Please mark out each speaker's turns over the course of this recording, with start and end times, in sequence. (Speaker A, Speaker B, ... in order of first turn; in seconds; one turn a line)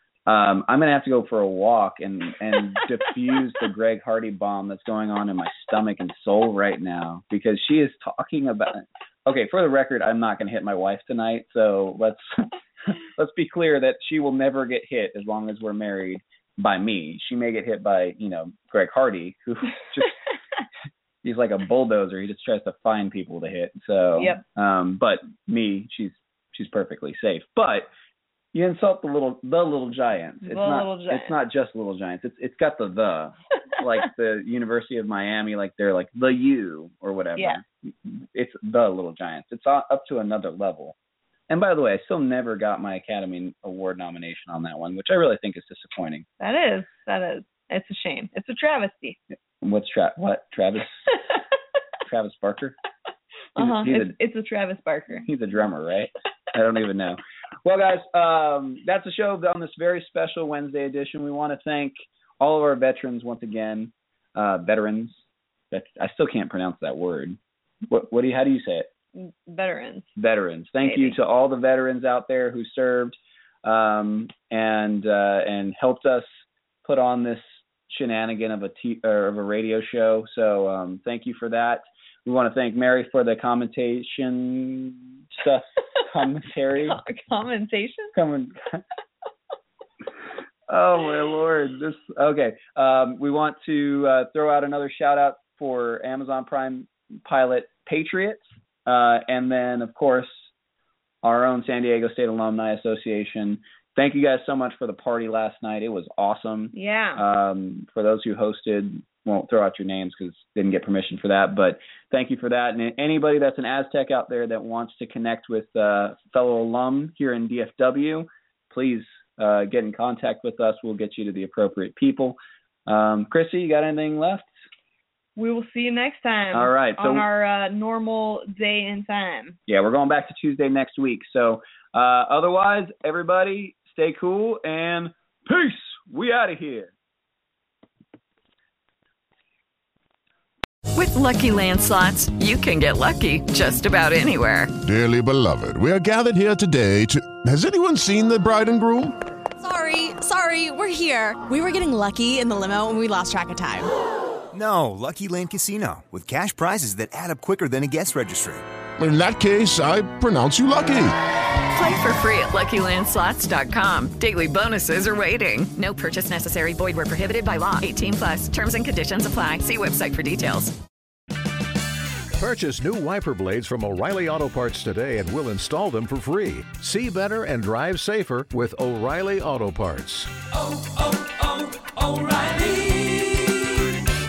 Speaker A: 0.2-20.1
Speaker A: 21.2-27.9
Speaker B: 24.2-24.4
Speaker A: 28.5-41.0
Speaker B: 30.4-31.4
Speaker A: 41.5-46.2
Speaker B: 46.4-49.2
Speaker A: 49.6-51.1
Speaker A: 52.0-52.8
Speaker B: 53.5-55.2
Speaker A: 53.5-54.1
Speaker A: 55.2-68.9
Speaker B: 69.1-70.1
Speaker A: 70.2-87.0
Speaker B: 70.8-71.2
Speaker B: 86.8-88.1
Speaker A: 88.1-88.8
Speaker A: 90.7-100.5
Speaker A: 101.2-124.5
Speaker B: 106.7-107.2
Speaker B: 125.4-129.6
Speaker A: 126.5-127.3
Speaker A: 129.7-136.9
Speaker C: 140.9-144.7
Speaker D: 144.8-149.2
Speaker E: 149.6-153.9
Speaker F: 154.5-158.6
Speaker D: 159.0-161.1
Speaker C: 161.7-170.8
Speaker G: 172.3-183.8